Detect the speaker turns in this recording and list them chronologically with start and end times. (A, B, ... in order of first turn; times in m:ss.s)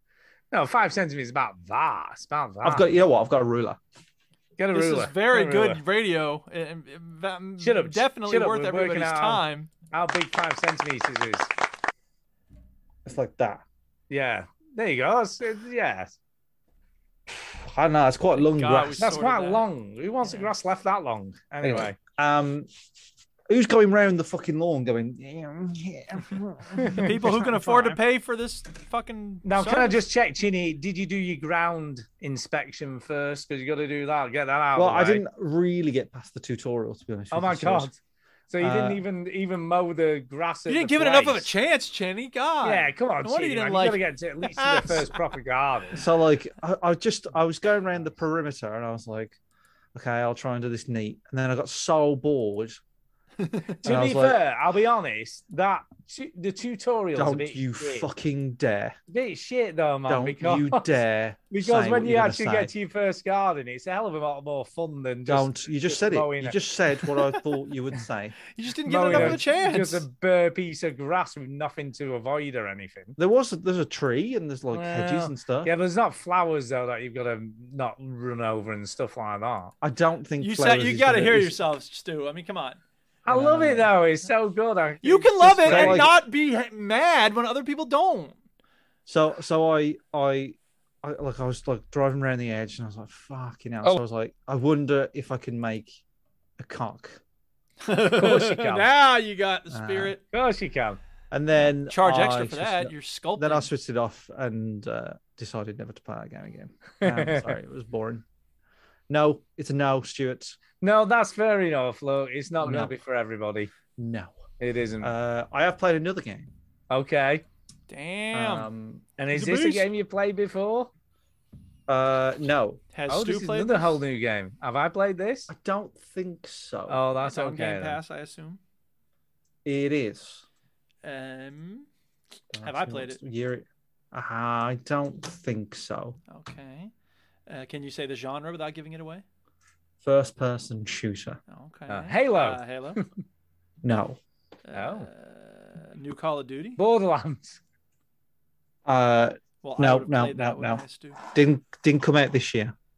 0:00.5-0:02.9 A
0:02.6-0:03.8 B
0:04.6-0:05.8 A
0:04.7-0:09.7 C
0:07.6-0:11.5 A
0:13.0-0:13.6 B
0:14.1-0:16.2 A
0:17.3-0:19.1 B
0:18.4-0:19.7 C
0:19.0-0:22.0 A
0:21.6-0:22.7 B
0:23.5-0:28.0 B
0:26.8-0:27.1 A
0:26.9-0:30.0 C
0:29.4-0:35.2 A
0:34.8-0:37.9 B
0:37.3-0:38.0 A
0:38.5-0:41.5 A
0:38.6-0:39.0 B
0:40.7-0:45.2 C
0:42.6-0:46.0 A
0:46.0-0:49.4 B
0:50.0-0:52.8 B
0:53.4-0:53.8 C
0:53.8-0:58.1 A
0:53.8-0:54.4 B
0:57.2-0:59.0 B
0:59.1-1:00.9 A
1:00.1-1:02.7 B
1:01.5-1:06.6 A
1:05.3-1:08.4 B
1:08.5-1:10.1 C
1:08.9-1:13.2 A
1:09.1-1:09.4 B
1:13.2-1:15.7 B
1:14.7-1:19.7 A
1:19.8-1:21.6 B
1:20.4-1:22.8 C
1:23.2-1:26.1 A
1:23.3-1:23.9 B
1:25.0-1:28.4 C
1:25.6-1:26.1 B
1:29.1-1:36.0 B
1:36.6-1:37.2 B
1:37.8-1:40.2 C
1:38.1-1:38.9 A
1:39.7-1:40.2 B
1:40.3-1:41.0 A
1:41.3-1:48.2 B
1:41.6-1:43.7 C
1:47.0-1:47.5 A
1:49.1-1:50.6 B
1:50.8-1:53.7 A
1:52.6-1:52.9 B
1:54.0-1:54.4 B
1:54.6-1:55.1 A
1:55.0-1:56.5 B
1:56.9-1:57.4 A
1:57.9-1:58.7 C
1:58.3-1:59.1 B
1:59.2-2:00.9 A
1:59.3-1:59.9 C
2:01.9-2:02.8 B
2:02.9-2:04.0 C
2:03.1-2:05.5 A
2:05.5-2:07.0 B
2:06.9-2:08.0 A
2:07.2-2:08.6 C
2:09.6-2:10.4 B
2:11.0-2:11.9 C
2:12.5-2:16.2 B
2:12.6-2:13.2 C
2:16.3-2:16.9 C
2:17.5-2:19.2 C
2:20.0-2:21.4 B
2:21.5-2:23.0 C
2:21.9-2:23.1 A
2:23.8-2:24.2 B
2:24.7-2:26.8 C
2:24.7-2:25.1 A
2:26.8-2:27.6 A
2:28.9-2:32.8 B
2:29.6-2:31.2 C